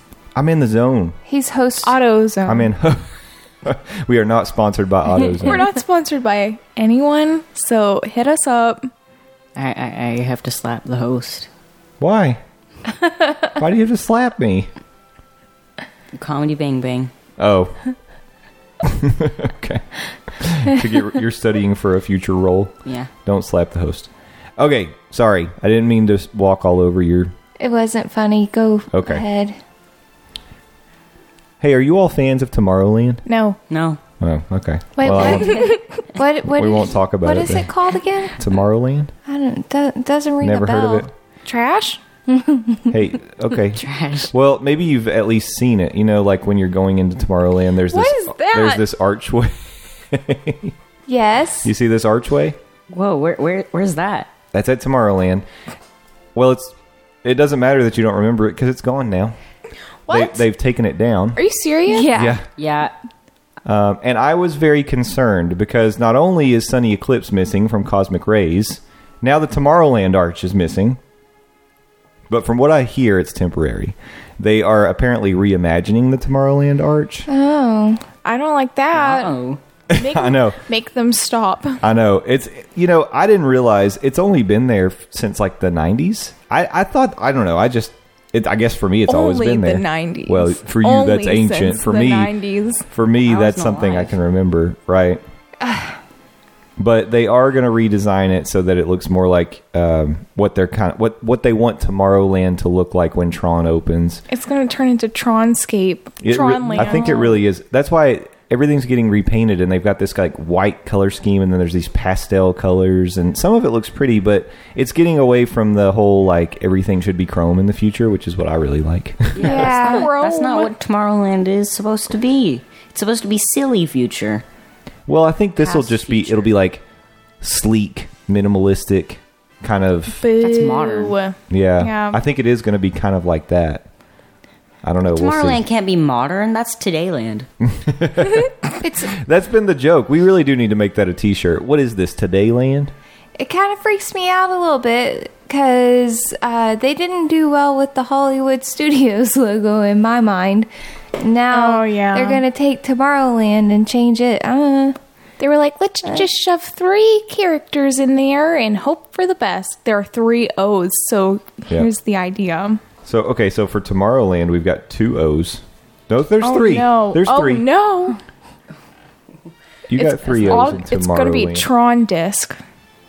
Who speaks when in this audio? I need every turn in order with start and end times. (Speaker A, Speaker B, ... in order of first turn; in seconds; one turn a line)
Speaker A: 0.3-1.2
Speaker B: 1.3-2.0
Speaker C: 1.8-2.7
Speaker A: 2.4-5.7
Speaker B: 5.2-5.5
Speaker C: 5.4-8.9
Speaker D: 9.6-11.5
Speaker A: 12.0-12.4
Speaker A: 13.6-14.7
Speaker D: 16.1-17.1
Speaker A: 17.4-17.8
Speaker A: 18.8-27.3
Speaker B: 27.6-29.6
Speaker A: 28.9-29.2
Speaker A: 31.6-33.2
Speaker C: 33.2-33.6
Speaker D: 33.7-34.0
Speaker A: 34.2-35.6
Speaker B: 35.0-38.4
Speaker C: 35.1-35.7
Speaker A: 36.5-37.7
Speaker A: 38.4-39.1
Speaker B: 39.2-41.1
Speaker A: 40.4-41.1
Speaker C: 41.4-42.0
Speaker B: 42.3-43.0
Speaker A: 42.9-50.7
Speaker D: 43.7-44.3
Speaker C: 47.9-48.8
Speaker B: 51.1-51.7
Speaker A: 51.6-52.6
Speaker D: 52.9-54.3
Speaker A: 54.5-55.4
Speaker A: 56.3-59.3
Speaker C: 60.1-60.4
Speaker A: 60.1-61.4
Speaker C: 61.4-62.1
Speaker B: 61.9-62.4
Speaker A: 62.1-62.4
Speaker D: 62.6-62.9
Speaker A: 63.6-71.0
Speaker A: 72.3-77.3
Speaker B: 77.3-78.0
Speaker C: 78.2-79.3
Speaker D: 78.9-79.6
Speaker A: 79.9-80.6
Speaker C: 79.9-81.8
Speaker A: 81.8-92.3
Speaker C: 89.1-92.8
Speaker A: 92.9-95.2
Speaker D: 93.2-94.2
Speaker B: 95.6-96.0
Speaker A: 96.8-104.2
Speaker C: 104.3-107.4
Speaker A: 106.2-119.5
Speaker D: 119.3-124.4
Speaker B: 119.4-120.1
Speaker C: 119.4-120.7
Speaker A: 125.1-126.8
Speaker D: 125.6-126.5
Speaker A: 127.4-130.2
Speaker C: 130.2-132.2
Speaker D: 130.4-131.2
Speaker A: 131.5-133.8
Speaker A: 134.8-135.6
Speaker D: 135.1-137.5
Speaker A: 137.6-142.9
Speaker B: 138.8-139.1
Speaker B: 143.4-150.7
Speaker B: 151.2-155.0
Speaker C: 151.5-152.4
Speaker C: 155.4-162.8
Speaker A: 163.0-167.7
Speaker C: 166.4-168.2
Speaker A: 169.9-171.7
Speaker C: 169.9-172.6
Speaker D: 170.3-170.7